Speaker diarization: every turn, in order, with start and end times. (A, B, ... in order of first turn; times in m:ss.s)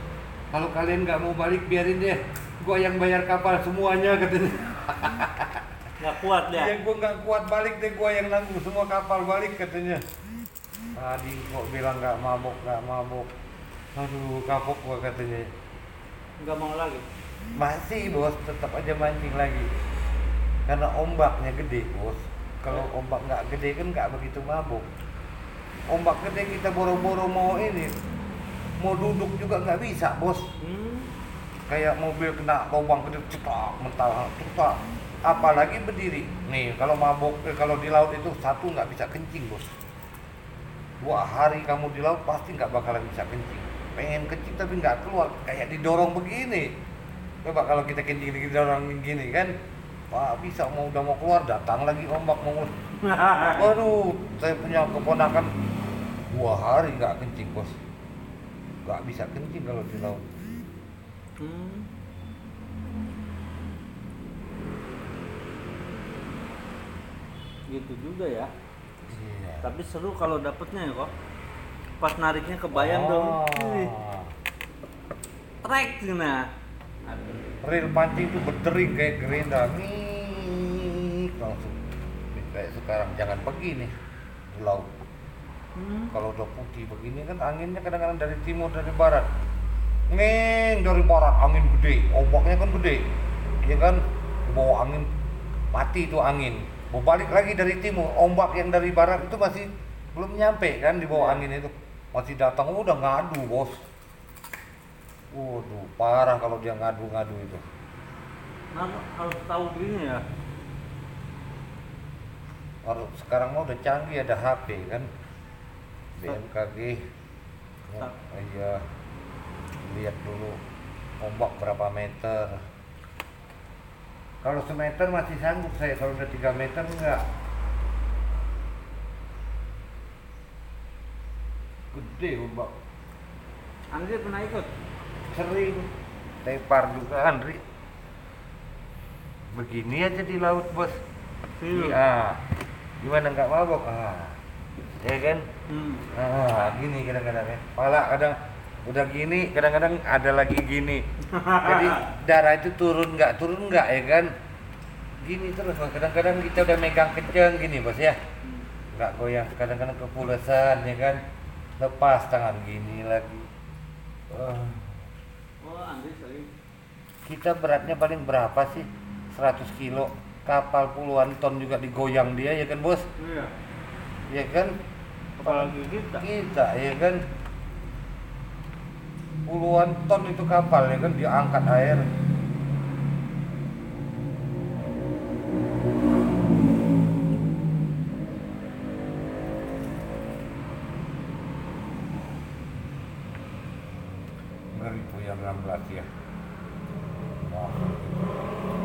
0:00.5-0:05.7 A
0:06.0-0:06.8 B
0:06.5-0:10.0 A
0:11.0-0:13.3 A
0:13.9-0:15.5 A
0:16.4-0:17.0 B
0:17.6-0:19.7 A
0:20.7-0:24.9 A
0:25.9-0:27.9 A
0:28.8-0:30.4 A
0:30.6-0:31.1 B
0:31.7-0:39.7 A
0:41.0-0:46.7 A
0:47.4-0:49.5 A
0:50.1-0:52.7 A
0:53.0-0:53.7 B
0:53.5-0:55.5 A
0:56.3-0:57.8 A
0:58.8-1:00.2 A
1:01.4-1:01.9 B
1:07.7-1:08.5 B
1:09.1-1:09.7 A
1:09.6-1:11.1 B
1:12.0-1:13.9 B
1:12.7-1:14.3 A
1:15.6-1:16.5 B
1:17.1-1:17.4 B
1:17.6-1:21.8 A
1:22.3-1:23.9 A
1:24.5-1:24.9 A
1:25.8-1:26.1 B
1:26.1-1:29.3 A
1:30.1-1:33.1 A
1:33.6-1:35.1 A
1:35.7-1:43.8 A
1:41.1-1:41.4 B
1:45.3-1:47.6 A
1:48.7-1:50.2 B
1:52.8-1:55.1 A
1:56.2-1:57.0 A
1:57.9-1:58.8 A
1:59.8-2:00.6 A
2:01.2-2:02.6 A
2:04.4-2:07.2 A
2:11.9-2:12.7 A
2:13.9-2:14.7 B
2:15.3-2:15.9 A
2:16.4-2:17.6 A
2:19.5-2:21.0 A
2:21.6-2:22.0 B
2:21.7-2:22.4 A
2:23.0-2:24.4 A
2:25.0-2:25.5 A
2:25.7-2:26.0 B
2:26.1-2:31.0 A
2:31.2-2:32.0 B
2:31.6-2:34.3 A
2:35.2-2:38.2 A
2:38.9-2:41.2 A
2:41.8-2:43.5 A
2:44.3-2:45.0 A
2:45.6-2:46.5 B
2:47.2-2:53.1 A
2:53.2-2:53.5 B
2:54.3-2:54.8 A
2:55.4-2:56.3 B
2:55.4-2:57.2 A
2:59.5-3:02.0 A
3:14.7-3:16.1 A
3:17.4-3:18.2 A